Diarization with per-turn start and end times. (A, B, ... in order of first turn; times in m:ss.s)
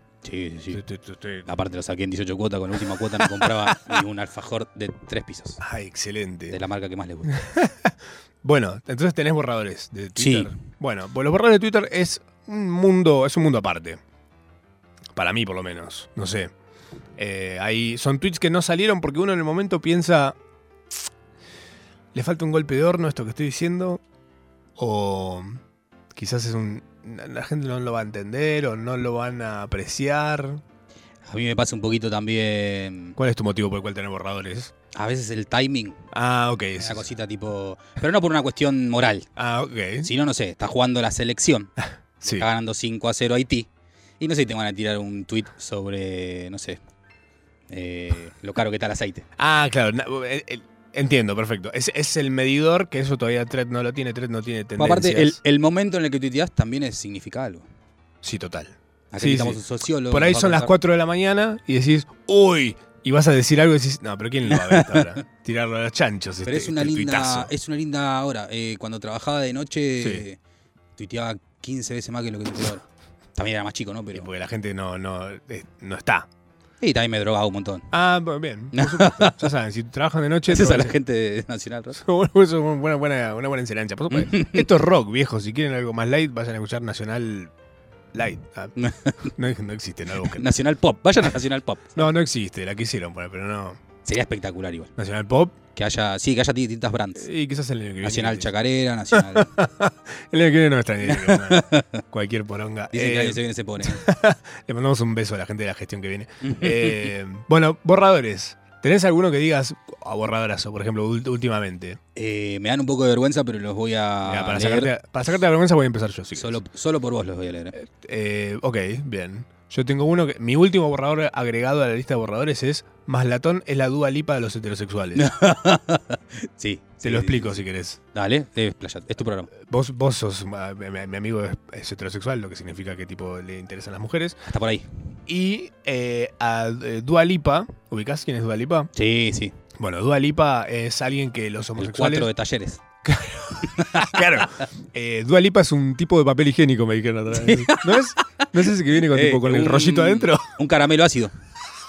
0:00.2-0:00.8 A
0:00.7-0:01.5 B
0:01.5-0:05.6 A
0:03.2-0:04.0 B
0:05.6-0:06.6 B
0:06.5-0:07.4 A
0:07.3-0:14.0 B
0:10.2-0:10.5 A
0:15.2-0:16.5 B
0:17.2-0:20.4 B
0:22.1-0:24.0 B
0:24.8-0:25.6 B
0:26.1-0:30.6 B
0:31.3-0:33.2 A
0:33.2-0:34.7 B
0:34.9-0:36.0 A
0:36.1-0:37.0 B
0:36.8-0:39.3 A
0:39.4-0:40.1 B
0:40.0-0:41.7 A
0:42.2-0:42.5 B
0:42.2-0:43.7 A
0:44.2-0:46.8 A
0:47.7-0:49.2 A
0:49.4-0:55.4 B
0:54.8-0:57.7 A
0:58.2-1:07.5 B
0:59.1-1:00.7 A
1:04.5-1:05.2 A
1:06.4-1:10.4 A
1:11.0-1:14.3 A
1:14.1-1:16.3 B
1:16.8-1:17.9 A
1:17.9-1:21.0 B
1:18.7-1:19.5 A
1:20.5-1:22.0 A
1:22.0-1:27.5 B
1:24.1-1:24.7 A
1:28.1-1:28.8 B
1:28.8-1:29.3 A
1:29.3-1:30.5 B
1:30.2-1:32.1 A
1:32.0-1:33.8 B
1:34.0-1:34.9 A
1:35.0-1:35.6 B
1:35.7-1:37.3 A
1:37.2-1:38.5 B
1:38.0-1:39.5 A
1:39.1-1:52.0 B
1:41.1-1:42.0 A
1:42.9-1:44.1 A
1:46.4-1:47.1 A
1:52.2-1:54.9 A
1:54.2-1:56.6 B
1:56.4-1:57.8 A
1:57.8-2:05.3 B
2:05.2-2:07.6 A
2:07.0-2:08.0 B
2:08.1-2:09.5 A
2:09.6-2:14.4 B
2:14.5-2:14.9 A
2:15.3-2:18.9 B
2:19.0-2:19.6 A
2:19.8-2:22.3 B
2:21.8-2:22.8 A
2:23.0-2:30.5 B
2:23.6-2:24.2 A
2:27.3-2:31.4 A